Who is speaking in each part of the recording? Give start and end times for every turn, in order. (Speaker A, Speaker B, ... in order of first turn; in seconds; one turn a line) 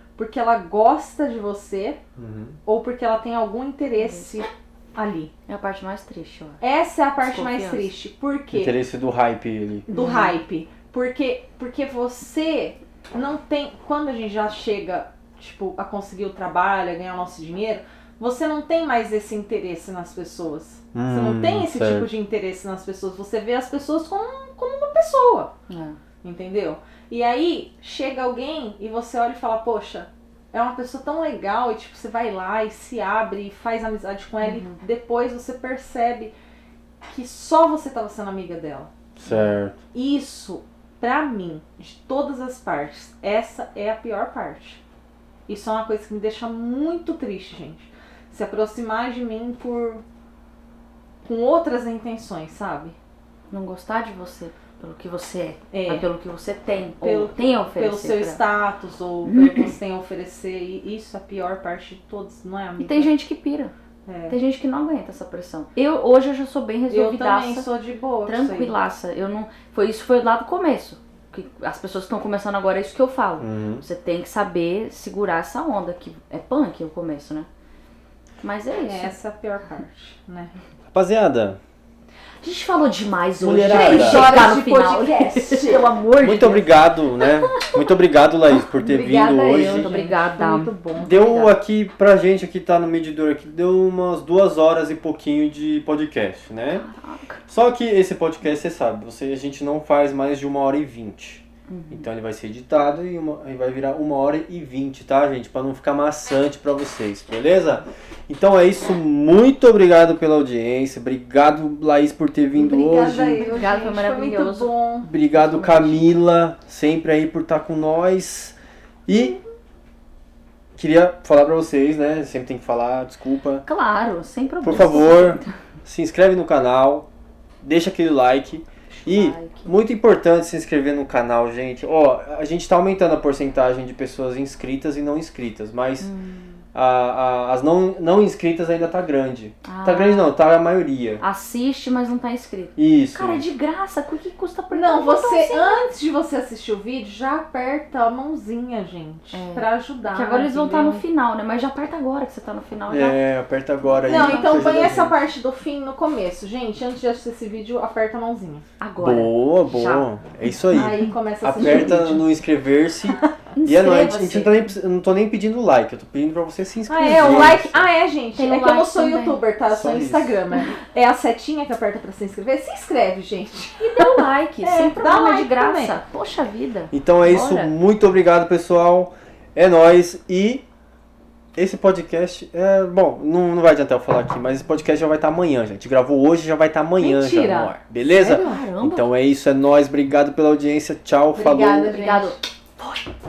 Speaker A: 0.2-2.0
Speaker B: 2.2-2.6
Speaker A: 2.7-5.3
Speaker C: 4.0-4.5
Speaker C: 5.5-6.6
Speaker A: 6.6-8.7
Speaker C: 7.2-7.9
Speaker B: 8.5-9.9
Speaker A: 9.9-25.5
Speaker C: 9.9-10.4
Speaker B: 20.9-22.1
Speaker C: 25.7-26.0
Speaker A: 26.2-36.3
Speaker C: 34.4-34.8
Speaker A: 37.1-38.9
Speaker B: 39.2-39.8
Speaker C: 39.3-39.5
Speaker A: 39.9-44.8
Speaker A: 45.5-50.0
Speaker A: 51.2-53.0
Speaker C: 53.5-58.4
Speaker A: 55.7-56.1
Speaker A: 57.0-63.1
Speaker C: 59.3-59.7
Speaker C: 62.8-63.7
Speaker A: 64.1-64.4
Speaker C: 64.3-67.7
Speaker A: 66.9-68.7
Speaker C: 68.3-77.5
Speaker B: 73.4-73.8
Speaker C: 78.4-79.1
Speaker A: 78.8-80.6
Speaker B: 80.9-81.6
Speaker C: 82.4-87.9
Speaker B: 83.4-84.4
Speaker A: 83.7-85.9
Speaker B: 86.2-89.9
Speaker C: 88.5-91.5
Speaker A: 88.8-91.1
Speaker B: 91.0-96.9
Speaker C: 96.7-97.4
Speaker B: 97.5-113.5
Speaker C: 101.7-102.1
Speaker A: 112.5-115.1
Speaker C: 113.4-114.7
Speaker B: 115.0-118.5
Speaker C: 115.3-116.2
Speaker B: 119.1-119.4
Speaker B: 120.8-123.7
Speaker C: 123.7-125.6
Speaker B: 124.6-127.1
Speaker B: 127.6-136.1
Speaker C: 128.9-129.7
Speaker C: 136.0-136.6
Speaker B: 136.7-141.2
Speaker C: 139.6-140.3
Speaker C: 141.2-145.9
Speaker B: 142.8-143.4
Speaker A: 144.7-151.0
Speaker C: 149.3-153.2
Speaker B: 152.9-155.2
Speaker C: 153.8-154.9
Speaker A: 154.1-158.7
Speaker C: 158.8-160.1
Speaker B: 159.0-167.8
Speaker A: 160.7-162.2
Speaker C: 161.6-162.0
Speaker C: 163.6-164.6
Speaker A: 166.9-176.0
Speaker C: 167.1-167.7
Speaker C: 168.4-169.4
Speaker B: 169.7-170.4
Speaker C: 173.8-177.7
Speaker B: 176.9-180.6
Speaker B: 181.6-192.0
Speaker A: 187.0-188.6
Speaker C: 188.2-189.1
Speaker A: 191.3-192.4
Speaker C: 191.8-193.1